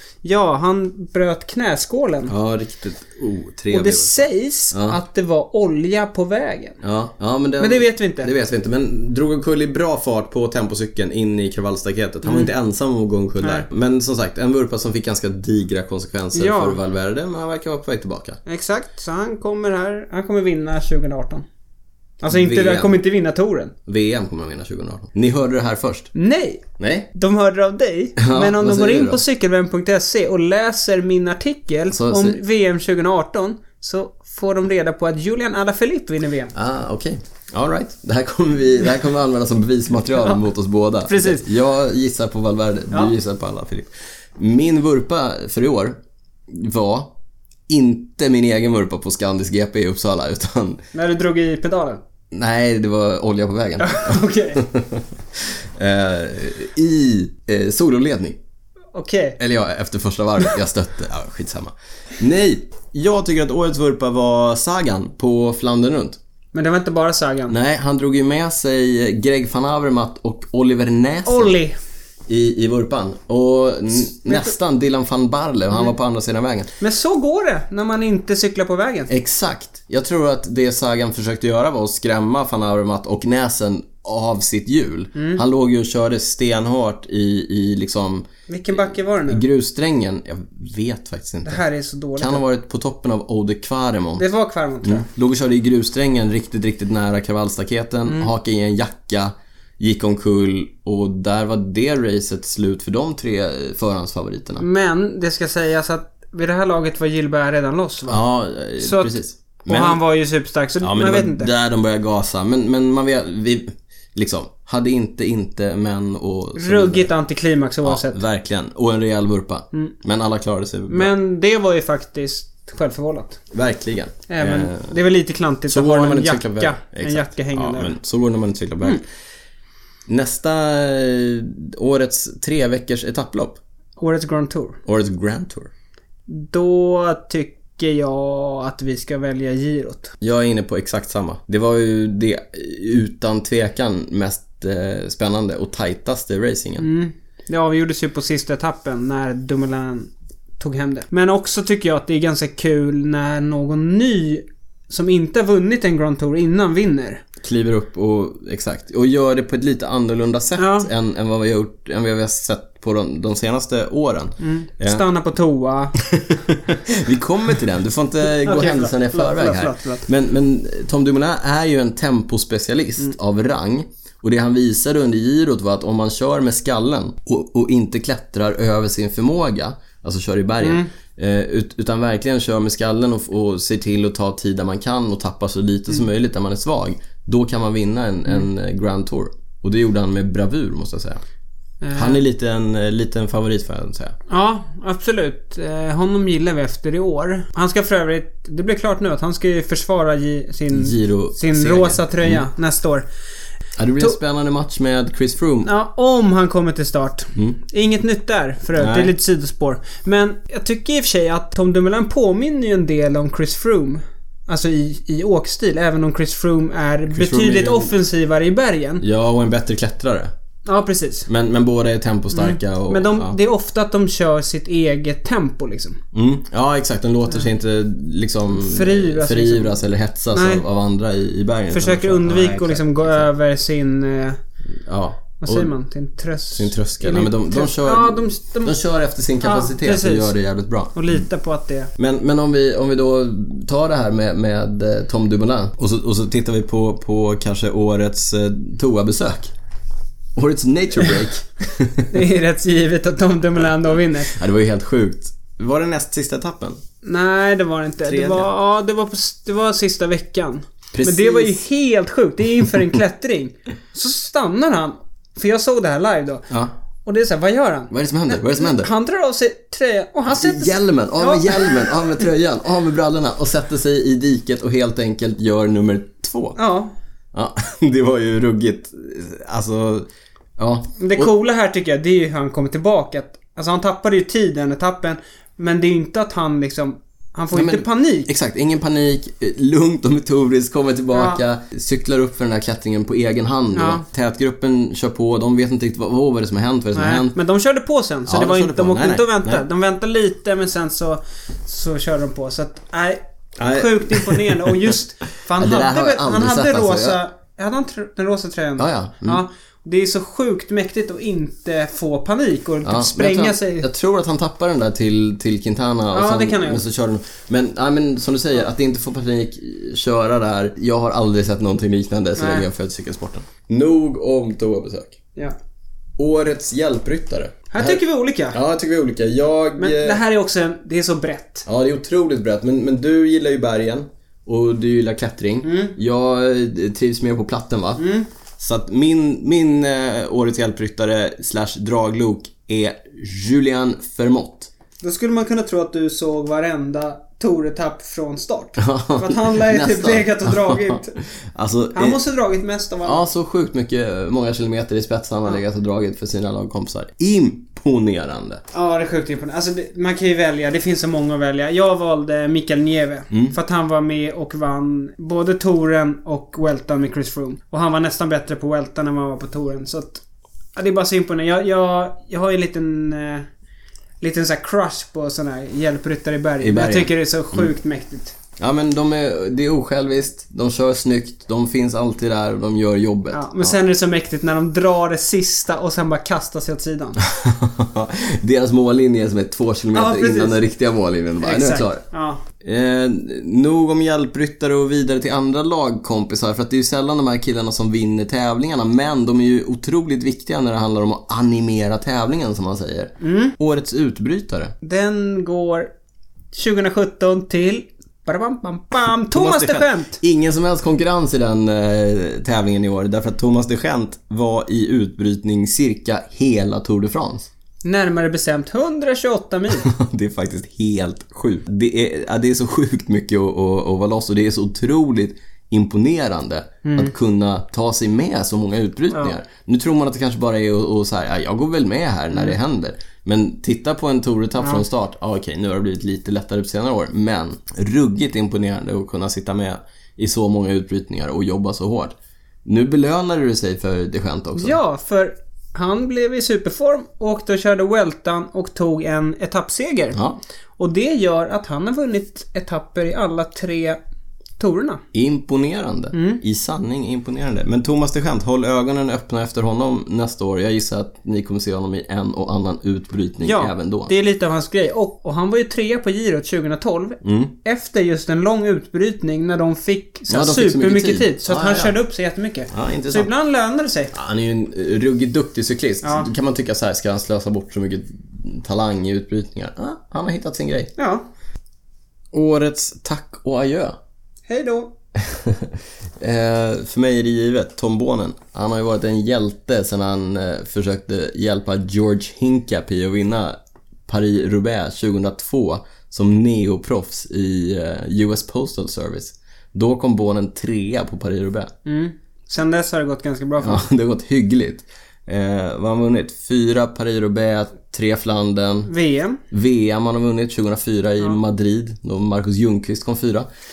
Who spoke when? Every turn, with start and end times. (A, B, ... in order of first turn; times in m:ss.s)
0:00.2-0:02.3 A
0:02.3-0:05.0 B
0:03.7-0:06.8 A
0:06.8-0:18.4 B
0:07.6-0:08.3 A
0:12.2-0:12.5 A
0:16.3-0:16.8 A
0:18.4-0:21.4 A
0:22.2-0:23.7 A
0:22.3-0:23.0 B
0:23.8-0:26.1 B
0:26.1-0:36.5 A
0:26.8-0:27.1 B
0:28.2-0:29.2 B
0:31.9-0:32.4 B
0:36.5-0:46.0 B
0:41.1-0:41.4 A
0:46.5-0:47.1 B
0:47.7-0:50.8 B
0:50.9-0:52.0 A
0:52.3-0:58.4 B
0:53.8-0:54.6 A
0:58.9-0:59.4 A
0:59.4-1:06.2 B
1:06.5-1:07.6 A
1:07.5-1:11.6 B
1:11.2-1:11.8 A
1:12.3-1:16.7 B
1:14.3-1:14.5 A
1:16.8-1:19.1 A
1:19.1-1:28.2 B
1:25.1-1:25.4 A
1:28.5-1:29.4 A
1:29.3-1:31.6 B
1:31.4-1:32.4 A
1:32.2-1:34.2 B
1:34.2-1:35.0 A
1:34.8-1:44.6 B
1:44.6-1:48.2 A
1:48.1-1:50.0 B
1:48.8-1:51.5 A
1:50.8-1:57.1 B
1:56.6-1:58.2 A
1:57.8-2:01.1 B
2:00.9-2:03.4 A
2:03.5-2:04.9 B
2:04.3-2:08.0 A
2:05.7-2:09.0 B
2:10.1-2:13.6 B
2:14.0-2:14.8 A
2:14.8-2:15.7 B
2:16.3-2:20.1 A
2:20.2-2:26.8 B
2:26.8-2:37.2 A
2:37.4-2:45.0 B
2:40.6-2:40.9 A
2:44.4-2:46.0 A
2:46.0-3:11.2 B
2:48.2-2:50.1 A
3:00.6-3:00.9 A
3:11.8-3:12.2 A
3:11.9-3:14.1 B
3:14.3-3:23.0 A
3:20.7-3:22.4 B
3:23.8-3:25.7 B
3:25.6-3:39.0 A
3:28.8-3:29.1 B
3:37.1-3:37.9 B
3:39.0-3:40.3 B
3:40.6-3:41.3 A
3:41.3-3:43.4 B
3:42.3-3:46.0 A
3:46.1-3:53.3 B
3:48.5-3:49.8 A
3:50.3-3:50.6 A
3:51.7-3:54.4 A
3:54.8-3:55.7 B
3:55.4-3:58.8 A
3:56.5-4:01.0 B
3:59.4-4:00.3 A
4:00.9-4:01.9 A
4:02.0-4:09.5 B
4:10.3-4:12.1 B
4:12.1-4:14.4 A
4:14.3-4:16.8 B
4:17.0-4:26.5 A
4:18.0-4:18.5 B
4:20.9-4:21.6 B
4:27.0-4:32.2 A
4:27.9-4:28.9 B
4:30.3-4:36.6 B
4:36.6-4:36.9 A
4:37.3-4:41.3 B
4:41.0-4:48.3 A
4:47.5-4:57.4 B
4:51.1-4:51.4 A
4:53.7-4:54.0 A
4:56.9-5:13.9 A
4:58.3-4:59.6 B
5:03.6-5:05.0 B
5:05.6-5:07.2 B
5:08.8-5:09.4 B
5:12.8-5:25.2 B
5:16.1-5:16.8 A
5:22.4-5:22.7 A
5:26.2-5:28.0 B
5:27.7-5:28.6 A
5:28.5-5:30.2 B
5:29.8-5:31.6 A
5:31.6-5:38.0 B
5:35.6-5:36.0 A
5:38.0-5:38.3 A
5:38.6-5:44.7 B
5:45.0-5:51.1 A
5:48.8-5:52.2 B
5:51.9-5:53.2 A
5:53.0-5:58.6 B
5:58.7-6:10.2 A
6:03.3-6:03.6 B
6:10.8-6:13.5 A
6:14.2-6:18.3 A
6:16.6-6:17.7 B
6:18.6-6:23.7 B
6:23.3-6:27.2 A
6:27.2-6:32.0 B
6:29.9-6:30.6 A
6:31.4-6:32.4 A
6:32.6-6:44.7 B
6:43.2-6:43.5 A
6:44.8-6:45.9 A
6:46.5-6:50.2 A
6:49.3-6:57.5 B
6:57.8-6:59.9 A
6:59.8-7:24.8 B
7:06.8-7:07.1 A
7:24.6-7:30.2 A
7:30.8-7:34.0 A
7:34.6-7:35.0 A
7:35.1-7:44.1 B
7:36.1-7:36.4 A
7:43.4-7:54.1 A
7:47.2-7:47.5 B
7:50.3-7:52.0 B
7:52.7-7:53.3 B
7:54.1-8:00.9 B
7:56.0-7:56.3 A
8:01.0-8:01.3 A
8:02.3-8:04.0 B
8:04.5-8:04.9 A
8:05.2-8:21.7 B
8:21.8-8:23.8 A
8:23.6-8:28.9 B
8:28.9-8:29.4 A
8:29.5-8:33.5 B